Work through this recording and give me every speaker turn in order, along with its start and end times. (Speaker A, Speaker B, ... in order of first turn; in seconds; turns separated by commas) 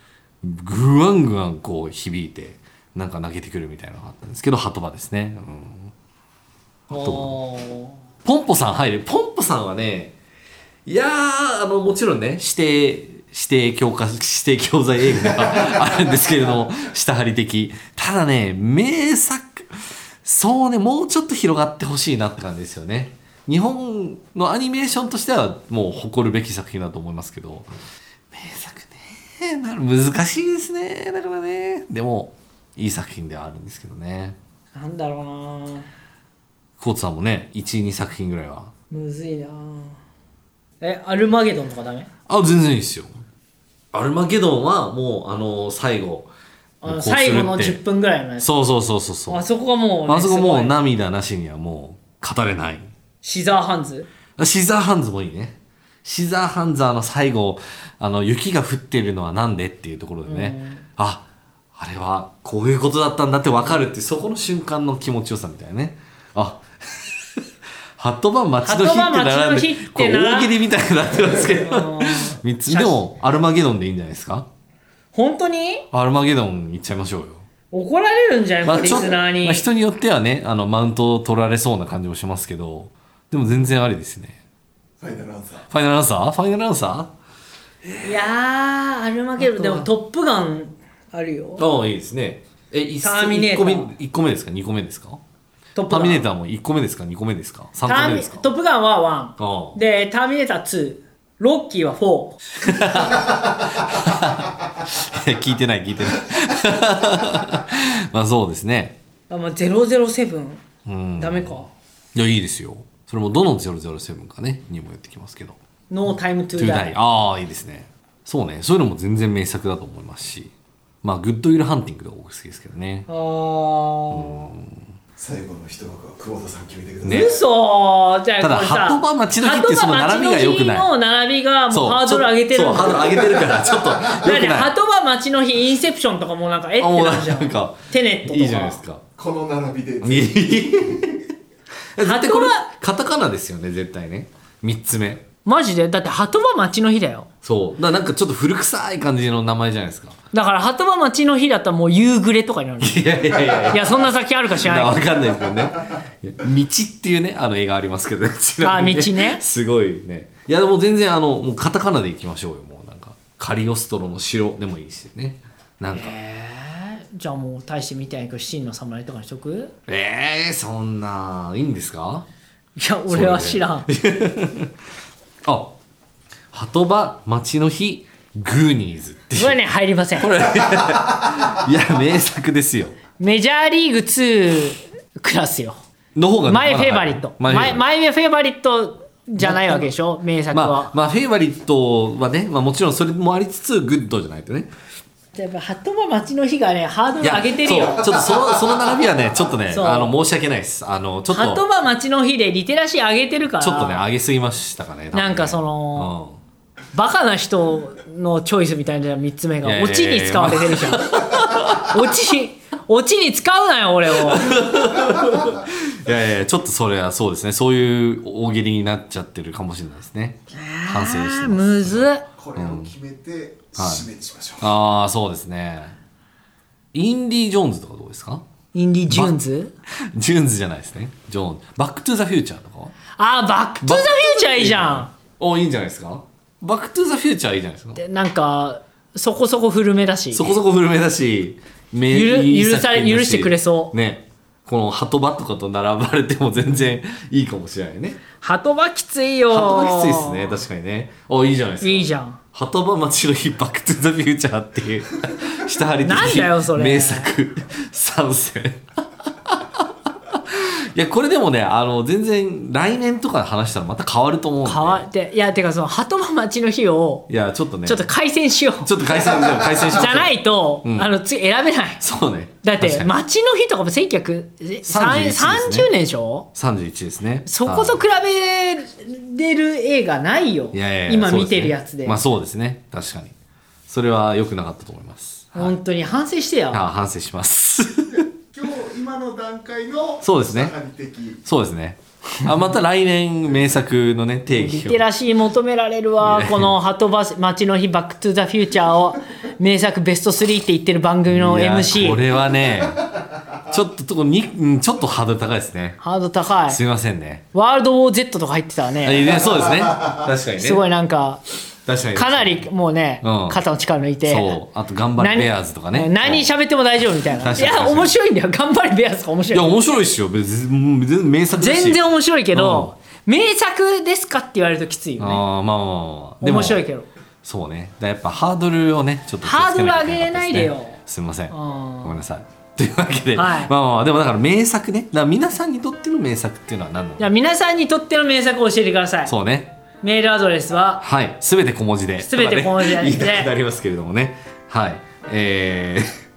Speaker A: 0.4-5.9, Speaker A: 6.9-7.3, Speaker B: 6.9-8.0, Speaker A: 8.2-10.2, Speaker A: 10.9-27.7, Speaker A: 28.3-34.4, Speaker B: 34.8-35.9, Speaker A: 36.8-38.7, Speaker B: 38.9-40.0, Speaker B: 40.8-42.1, Speaker A: 42.3-43.2, Speaker A: 43.9-46.3, Speaker B: 46.8-48.5, Speaker A: 46.8-47.8, Speaker A: 48.4-49.5, Speaker B: 49.3-50.8, Speaker A: 50.1-52.9, Speaker B: 53.2-54.1, Speaker A: 54.4-67.5, Speaker B: 60.3-60.9, Speaker A: 68.0-74.5, Speaker B: 68.6-70.6, Speaker B: 71.5-73.0, Speaker B: 75.1-75.9, Speaker A: 75.9-77.5, Speaker B: 77.7-79.7, Speaker A: 78.6-84.4, Speaker C: 85.0-85.7, Speaker A: 85.7-87.1, Speaker B: 88.0-91.7, Speaker A: 89.4-89.9, Speaker A: 91.6-95.2, Speaker B: 93.0-93.9, Speaker B: 95.8-96.2, Speaker A: 95.9-98.5, Speaker B: 97.9-102.4, Speaker A: 99.4-99.8, Speaker A: 102.6-109.0, Speaker B: 109.3-110.7, Speaker A: 110.8-115.6, Speaker B: 111.2-111.7, Speaker B: 115.9-116.9, Speaker A: 116.6-120.5, Speaker A: 121.0-123.1, Speaker B: 123.1-124.5, Speaker A: 124.1-124.8, Speaker C: 125.2-127.3, Speaker A: 127.0-127.3, Speaker B: 127.1-133.4, Speaker A: 128.4-130.9, Speaker A: 131.7-134.7, Speaker C: 133.5-133.8, Speaker B: 134.2-138.8, Speaker A: 136.8-139.0, Speaker C: 139.2-140.9, Speaker A: 140.0-141.2, Speaker A: 141.9-145.2, Speaker B: 142.0-142.7, Speaker B: 145.4-147.3, Speaker A: 147.4-150.2, Speaker B: 150.3-155.1, Speaker A: 152.8-166.2, Speaker B: 158.6-159.4, Speaker B: 165.9-169.7, Speaker A: 169.9-172.3, Speaker B: 172.8-173.9, Speaker A: 173.1-174.7, Speaker A: 175.4-175.8, Speaker A: 176.5-179.6, Speaker B: 179.3-180.3, Speaker A: 180.2-183.0, Speaker B: 183.2-185.8, Speaker A: 186.2-187.8, Speaker B: 186.5-190.9, Speaker A: 189.4-189.9, Speaker A: 190.5-194.7, Speaker B: 195.3-198.0, Speaker A: 197.2-201.6, Speaker B: 199.7-200.2, Speaker B: 201.3-204.0, Speaker A: 203.6-206.4, Speaker B: 205.1-206.2, Speaker B: 206.9-214.6, Speaker A: 209.6-212.1, Speaker A: 214.1-222.9, Speaker B: 220.5-222.2, Speaker C: 222.4-224.7, Speaker A: 223.8-224.1, Speaker A: 224.6-226.0, Speaker A: 226.9-228.4, Speaker B: 228.7-229.7, Speaker A: 229.1-229.4, Speaker A: 229.9-232.9, Speaker B: 233.2-235.1, Speaker A: 233.8-238.0, Speaker B: 238.0-240.6, Speaker A: 240.3-248.2, Speaker B: 242.1-243.9, Speaker B: 248.4-250.6, Speaker A: 249.5-265.1, Speaker B: 251.8-252.4, Speaker B: 256.0-257.3, Speaker B: 264.6-267.3, Speaker A: 267.3-268.1, Speaker B: 267.9-269.3, Speaker A: 268.8-271.1, Speaker B: 269.8-272.0, Speaker A: 272.0-273.1, Speaker B: 272.6-276.5, Speaker A: 274.9-275.9, Speaker A: 276.6-278.0, Speaker B: 277.5-282.2, Speaker A: 280.7-283.4, Speaker A: 283.9-285.8, Speaker B: 285.5-286.9, Speaker A: 286.7-288.3, Speaker C: 288.2-291.4, Speaker A: 290.2-290.8, Speaker A: 291.4-295.0, Speaker B: 294.5-302.2, Speaker A: 296.2-296.7, Speaker A: 301.3-303.0, Speaker A: 303.7-306.0, Speaker B: 306.0-306.8, Speaker A: 306.7-307.4, Speaker B: 307.5-309.5, Speaker A: 309.0-310.8, Speaker B: 310.6-311.4, Speaker A: 311.9-312.7, Speaker B: 312.1-314.6, Speaker A: 313.2-313.6, Speaker A: 314.2-316.5, Speaker B: 315.2-319.8, Speaker A: 317.4-318.2, Speaker A: 319.5-322.9, Speaker B: 321.6-325.4, Speaker A: 325.2-326.9, Speaker B: 326.4-327.1, Speaker A: 327.4-337.3, Speaker B: 329.4-331.0, Speaker B: 331.5-332.2, Speaker B: 333.4-333.7, Speaker B: 337.2-339.3, Speaker A: 339.3-339.7, Speaker B: 340.0-341.1, Speaker A: 341.0-346.1, Speaker B: 342.2-343.5